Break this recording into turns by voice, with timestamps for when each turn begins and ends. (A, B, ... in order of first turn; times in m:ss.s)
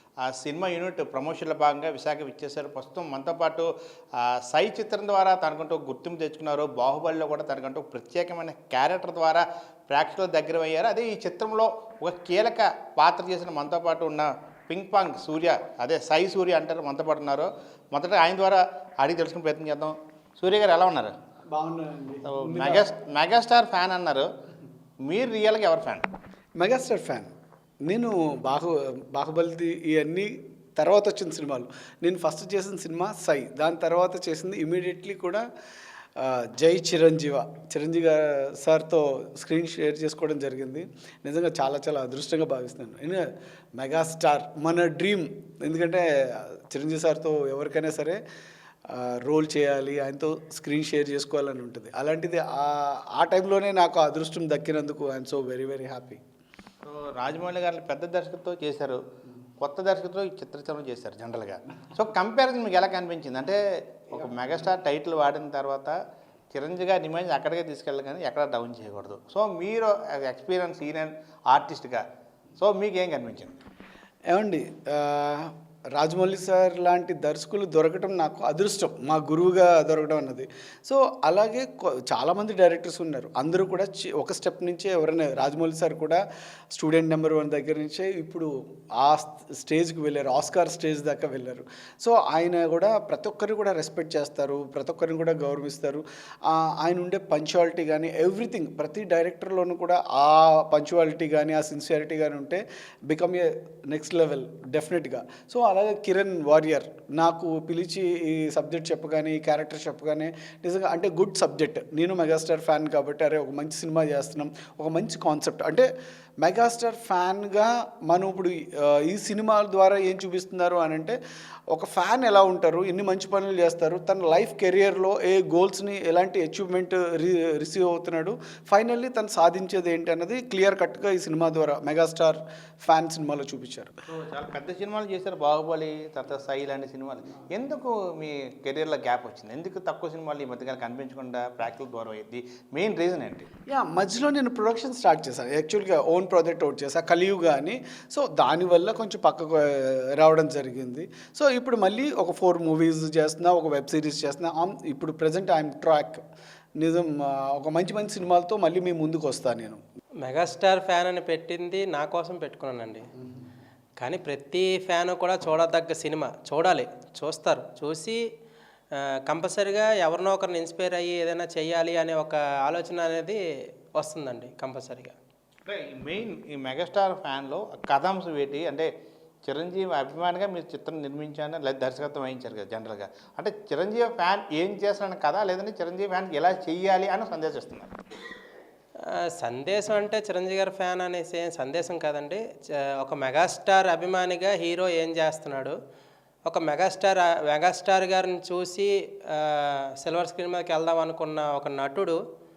0:00.3-0:03.7 A
0:04.2-0:21.1 A
0:21.5-0:22.9 B
0:22.3-0:24.3 A
0:25.0-0:26.0 A
0:26.6-0:27.3 B
0:27.9-0:35.4 B
0:36.2-0:48.2 B
0:48.9-0:56.2 B
0:56.8-0:59.0 A
0:59.6-1:03.6 A
1:04.1-1:05.9 A
1:06.5-1:12.0 A
1:12.6-1:13.6 A
1:14.3-1:26.2 B
1:26.7-1:55.9 B
1:56.4-2:01.2 B
2:01.7-2:13.9 B
2:14.1-2:23.5 A
2:23.7-2:36.2 B
2:36.8-2:39.8 B
2:40.2-2:43.0 C
2:44.0-2:48.2 C
2:49.3-2:53.4 C
2:54.0-2:55.1 C
2:55.6-2:58.9 A
2:59.5-3:07.9 A
3:09.3-3:15.8 C
3:16.4-3:22.2 C